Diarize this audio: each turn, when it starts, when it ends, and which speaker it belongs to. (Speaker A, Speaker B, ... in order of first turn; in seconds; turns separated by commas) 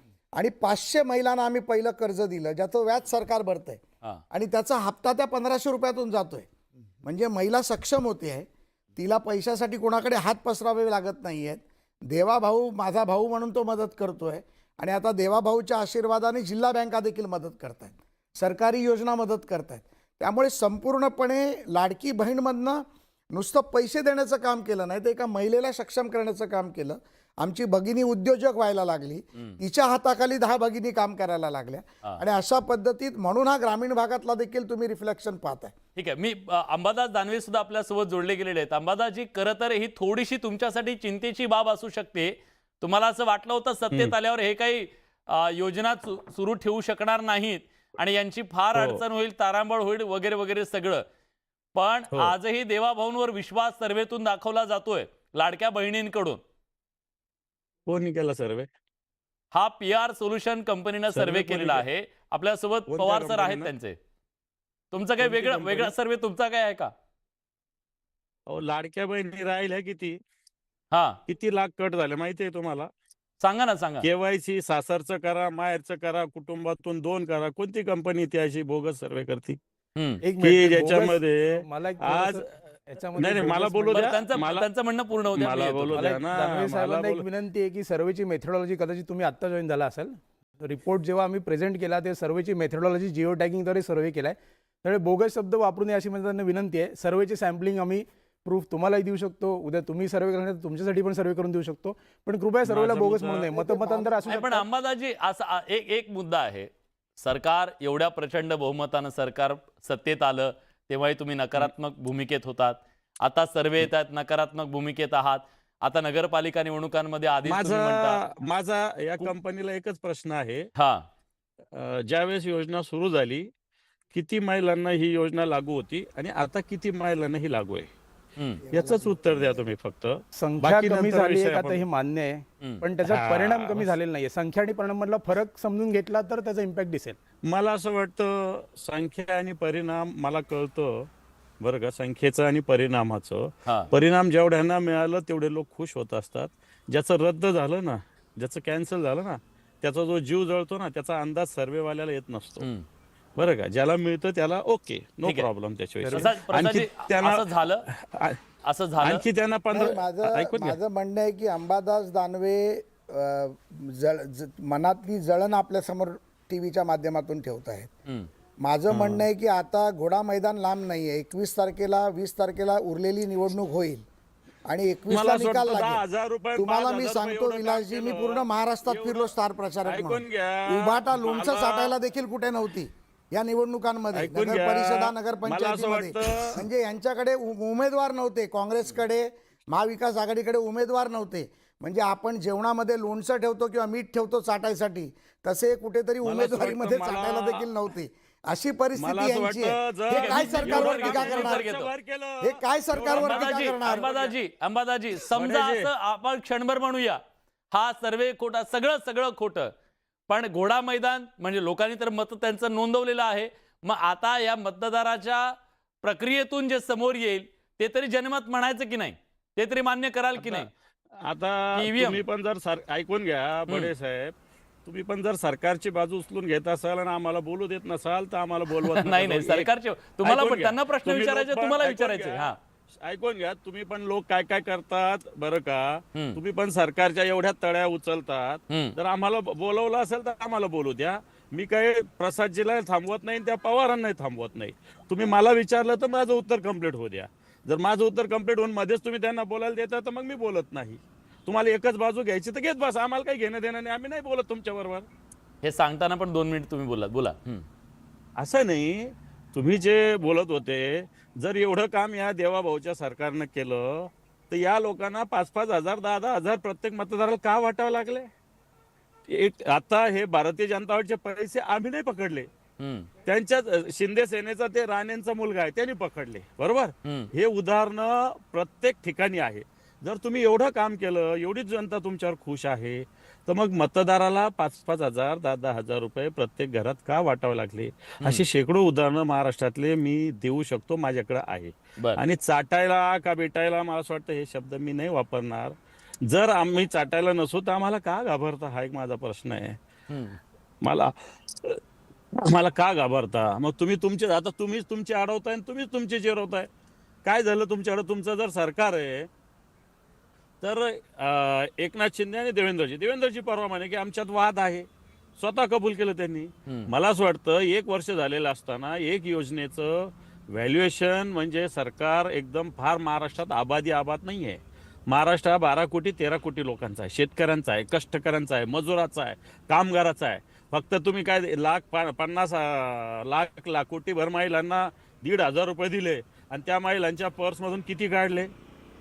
Speaker A: 0.3-6.5, Speaker A: 7.0-35.7, Speaker B: 36.0-51.0, Speaker C: 48.7-49.0, Speaker B: 51.7-56.4, Speaker C: 57.9-58.7, Speaker B: 59.5-64.0, Speaker C: 61.1-61.9, Speaker C: 62.9-63.7, Speaker B: 64.9-66.9, Speaker C: 65.2-65.9, Speaker C: 68.5-70.2, Speaker B: 70.9-71.2, Speaker C: 71.3-72.9, Speaker B: 73.4-74.0, Speaker C: 74.0-79.6, Speaker B: 80.0-80.2, Speaker D: 80.2-84.2, Speaker C: 80.4-82.4, Speaker C: 83.2-84.7, Speaker B: 83.9-86.1, Speaker C: 85.2-87.2, Speaker D: 85.9-104.6, Speaker C: 102.7-103.6, Speaker B: 104.2-118.2, Speaker C: 117.5-120.7, Speaker B: 120.8-121.0, Speaker C: 121.7-123.5, Speaker C: 124.1-127.9, Speaker B: 128.3-128.6, Speaker A: 128.6-129.7, Speaker C: 128.7-131.8, Speaker D: 130.3-137.2, Speaker C: 133.1-133.9, Speaker C: 137.5-152.7, Speaker B: 152.6-152.8, Speaker C: 153.4-158.4, Speaker D: 156.0-156.3, Speaker B: 156.1-157.8, Speaker B: 158.6-159.2, Speaker C: 159.0-160.8, Speaker A: 159.7-167.9, Speaker A: 168.6-174.0, Speaker C: 168.9-169.2, Speaker A: 174.7-176.0, Speaker C: 175.1-179.3, Speaker A: 176.6-201.7, Speaker C: 179.8-182.0, Speaker C: 184.1-186.6, Speaker C: 196.2-197.6, Speaker C: 199.0-204.3, Speaker B: 200.1-201.9, Speaker A: 202.4-204.1, Speaker B: 203.1-207.2, Speaker C: 205.3-205.9, Speaker B: 207.7-209.7, Speaker B: 210.3-220.7, Speaker C: 220.3-220.7, Speaker C: 221.2-224.3, Speaker B: 221.8-222.2, Speaker C: 224.8-229.7, Speaker B: 228.8-232.6, Speaker C: 230.2-255.1, Speaker B: 255.6-257.6, Speaker C: 258.4-268.3, Speaker C: 269.3-272.5, Speaker B: 272.8-273.1, Speaker C: 273.2-299.8, Speaker B: 277.0-277.3, Speaker B: 300.1-300.4, Speaker C: 300.8-301.8, Speaker C: 302.4-306.7, Speaker C: 307.2-309.3, Speaker C: 310.6-338.5